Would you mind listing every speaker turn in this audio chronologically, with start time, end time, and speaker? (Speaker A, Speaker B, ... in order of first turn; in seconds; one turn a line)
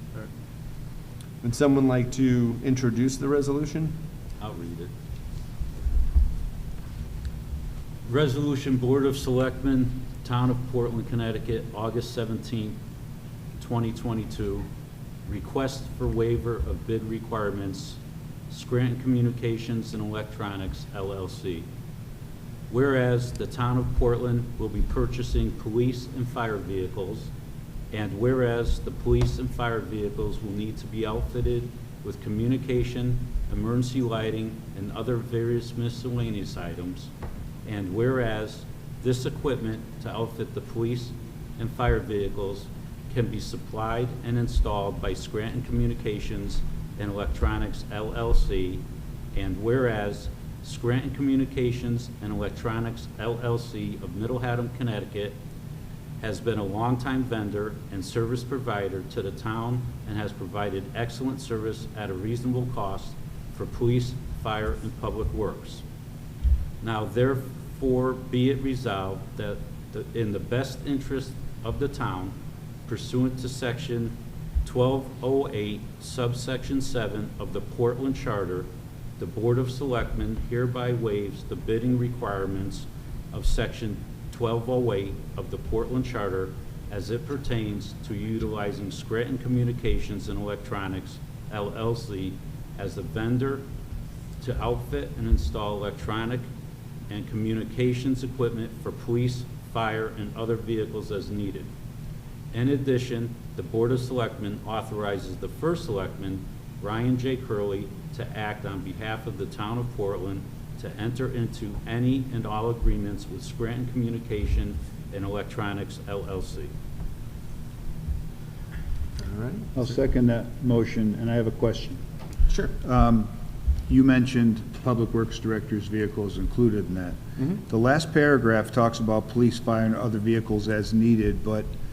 Speaker A: 1.4-4.0
Speaker B: 4.4-4.9
Speaker B: 8.1-12.8
Speaker B: 13.6-14.7
Speaker B: 15.2-18.0
Speaker B: 18.5-21.7
Speaker B: 22.7-27.3
Speaker B: 27.9-37.1
Speaker B: 37.6-48.8
Speaker B: 49.3-55.4
Speaker B: 56.2-65.8
Speaker B: 66.8-72.3
Speaker B: 72.9-93.7
Speaker B: 94.4-96.4
Speaker B: 97.1-101.7
Speaker B: 102.5-116.7
Speaker A: 119.2-119.9
Speaker C: 119.7-122.0
Speaker A: 122.5-122.8
Speaker C: 122.8-123.3
Speaker C: 123.9-131.7